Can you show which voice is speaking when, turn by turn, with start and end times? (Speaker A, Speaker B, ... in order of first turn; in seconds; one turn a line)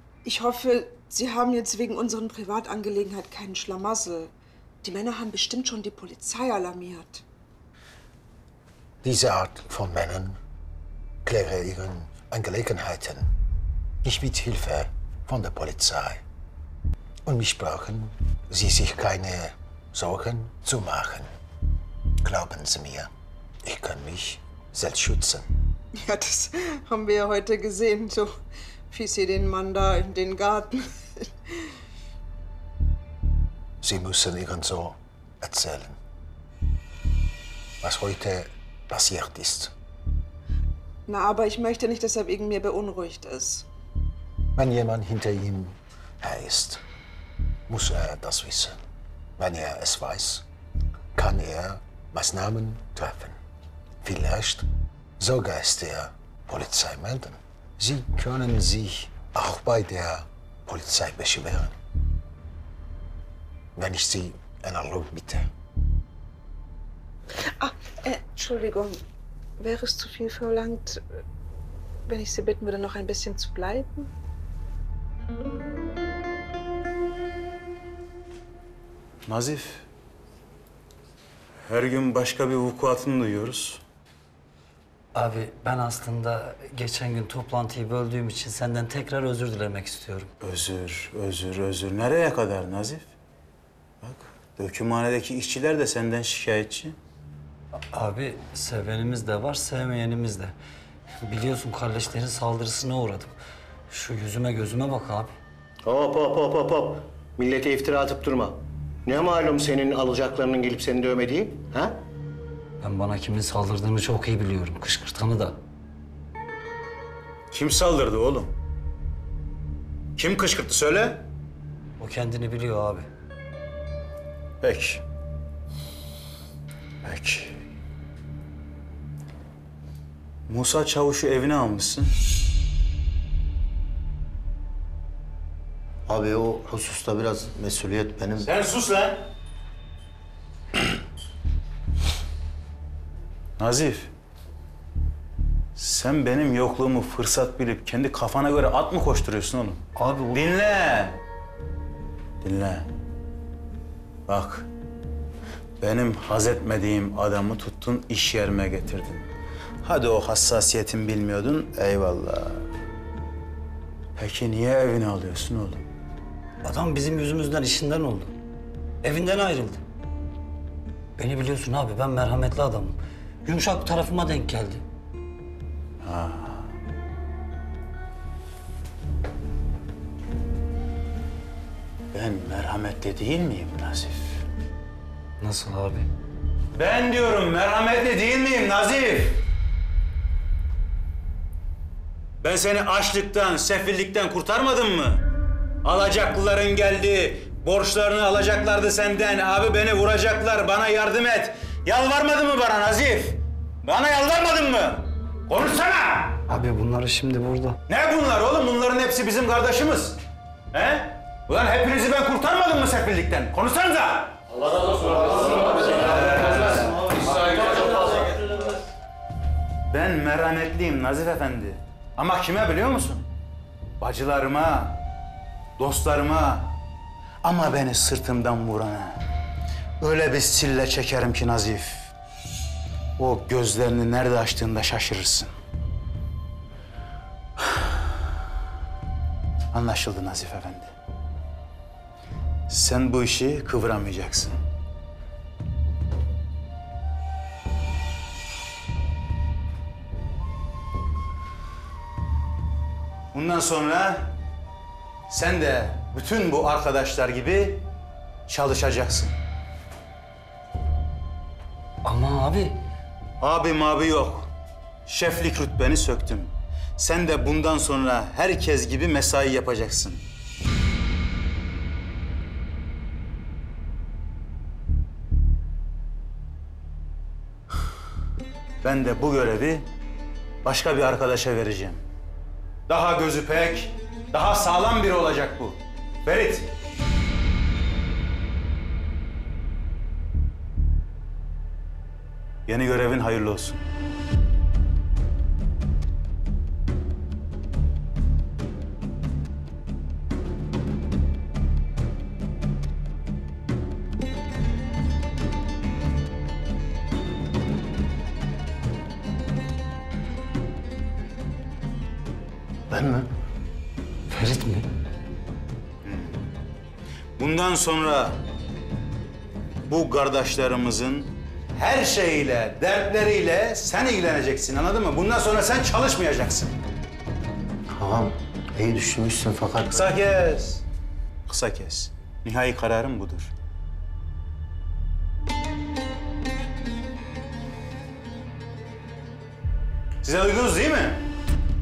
Speaker A: 0.2-4.3
Speaker A: 4.8-7.2
Speaker B: 9.0-10.4
Speaker B: 11.2-13.3
Speaker B: 14.0-16.2
Speaker B: 17.2-21.3
Speaker B: 22.2-23.1
Speaker B: 23.6-25.5
Speaker A: 26.0-28.4
Speaker A: 28.9-31.6
Speaker B: 33.8-36.0
Speaker B: 37.8-39.7
Speaker A: 41.1-43.7
Speaker B: 44.6-46.8
Speaker B: 47.7-48.8
Speaker B: 49.4-50.5
Speaker B: 51.1-53.4
Speaker B: 54.0-54.7
Speaker B: 55.2-61.8
Speaker B: 63.8-65.5
Speaker A: 67.5-69.0
Speaker A: 69.6-71.0
Speaker A: 72.1-74.1
Speaker C: 79.3-79.8
Speaker C: 81.7-83.8
Speaker D: 85.2-90.3
Speaker C: 90.4-93.1
Speaker C: 94.0-97.0
Speaker D: 97.9-100.5
Speaker D: 101.2-103.3
Speaker D: 103.9-105.3
Speaker E: 105.8-112.0
Speaker D: 112.8-115.6
Speaker C: 117.5-118.5
Speaker C: 120.2-121.3
Speaker D: 122.0-123.1
Speaker C: 124.6-125.0
Speaker C: 127.0-127.6
Speaker C: 130.5-132.1
Speaker F: 136.1-138.5
Speaker C: 138.4-139.3
Speaker C: 143.6-144.1
Speaker C: 145.8-151.2
Speaker D: 150.0-150.4
Speaker C: 152.4-152.9
Speaker C: 154.3-154.7
Speaker C: 155.8-159.3
Speaker C: 159.8-162.7
Speaker C: 164.2-165.8
Speaker D: 166.6-168.3
Speaker D: 169.0-169.8
Speaker D: 171.2-174.8
Speaker C: 176.0-176.7
Speaker C: 182.1-184.4
Speaker D: 185.4-186.1
Speaker C: 186.8-189.4
Speaker C: 192.4-195.2
Speaker C: 195.8-206.4
Speaker D: 206.5-207.8
Speaker C: 207.9-210.2
Speaker C: 210.7-218.5
Speaker C: 219.9-223.3
Speaker C: 224.0-225.0
Speaker C: 225.8-226.8
Speaker C: 227.4-229.2
Speaker C: 230.0-232.1
Speaker C: 233.2-235.5
Speaker C: 239.7-240.9
Speaker C: 242.7-244.6
Speaker C: 253.3-254.4
Speaker C: 255.3-257.9
Speaker C: 258.5-259.4
Speaker D: 262.0-262.8
Speaker C: 263.4-264.5
Speaker C: 265.1-270.2
Speaker C: 278.8-279.9
Speaker C: 280.6-282.0
Speaker C: 282.9-286.7
Speaker C: 292.7-293.8
Speaker F: 312.9-313.3
Speaker D: 314.3-314.9
Speaker C: 316.0-316.4
Speaker C: 317.4-318.4
Speaker C: 319.9-326.7
Speaker F: 327.9-330.1
Speaker C: 329.9-330.8
Speaker C: 331.5-333.5
Speaker C: 340.2-341.3